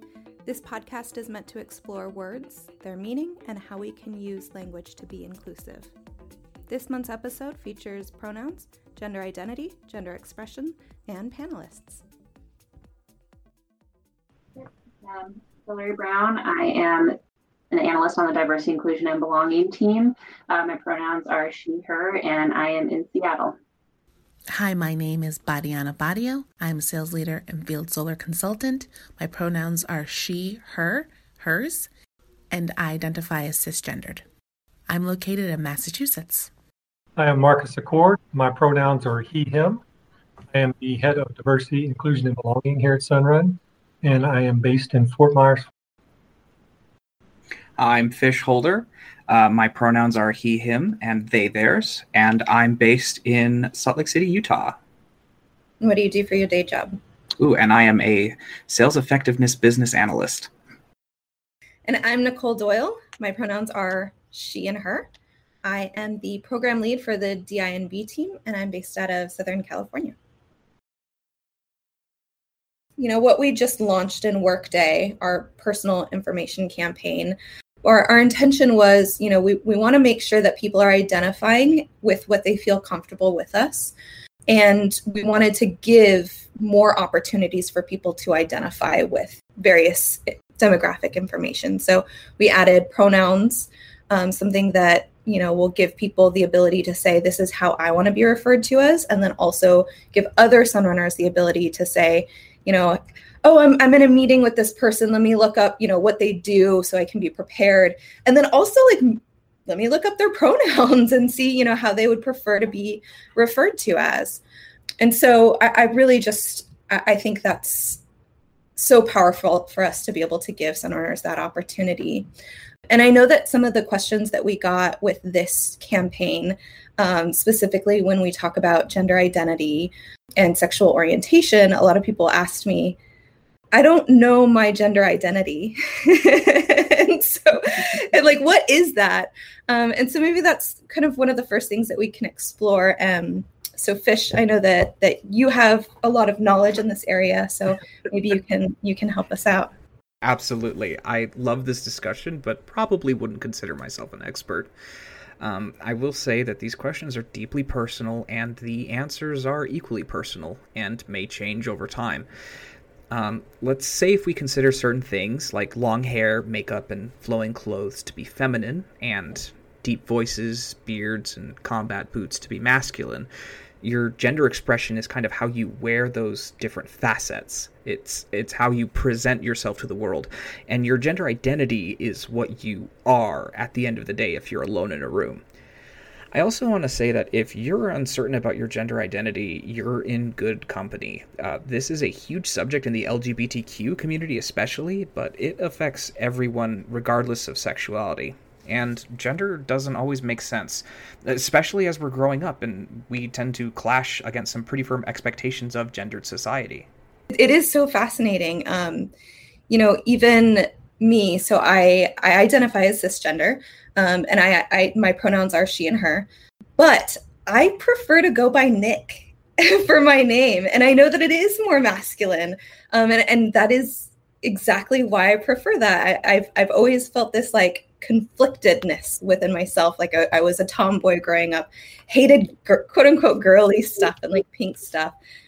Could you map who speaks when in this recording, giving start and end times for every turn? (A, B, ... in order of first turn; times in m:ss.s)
0:00.5-0:05.9 A
0:06.7-0:12.0 A
0:14.6-0:17.2 B
0:17.7-0:23.6 B
0:24.5-0:31.9 C
0:32.5-0:34.2 C
0:34.9-0:36.5 C
0:37.2-0:39.8 D
0:40.5-0:45.7 D
0:47.8-0:54.8 E
0:55.8-0:57.0 A
0:57.4-1:00.5 E
1:01.9-1:05.1 A
1:05.6-1:10.2 A
1:13.0-1:23.9 A
1:24.5-1:54.4 A
1:55.0-1:58.0 A
1:58.8-2:02.3 A
2:02.9-2:13.0 A
2:13.7-2:29.7 A
2:30.2-2:34.7 E
2:35.4-2:42.3 E
2:43.1-2:53.3 E
2:53.8-3:05.4 E
3:06.3-3:26.9 E
3:27.3-3:29.1 A
3:29.7-3:55.2 A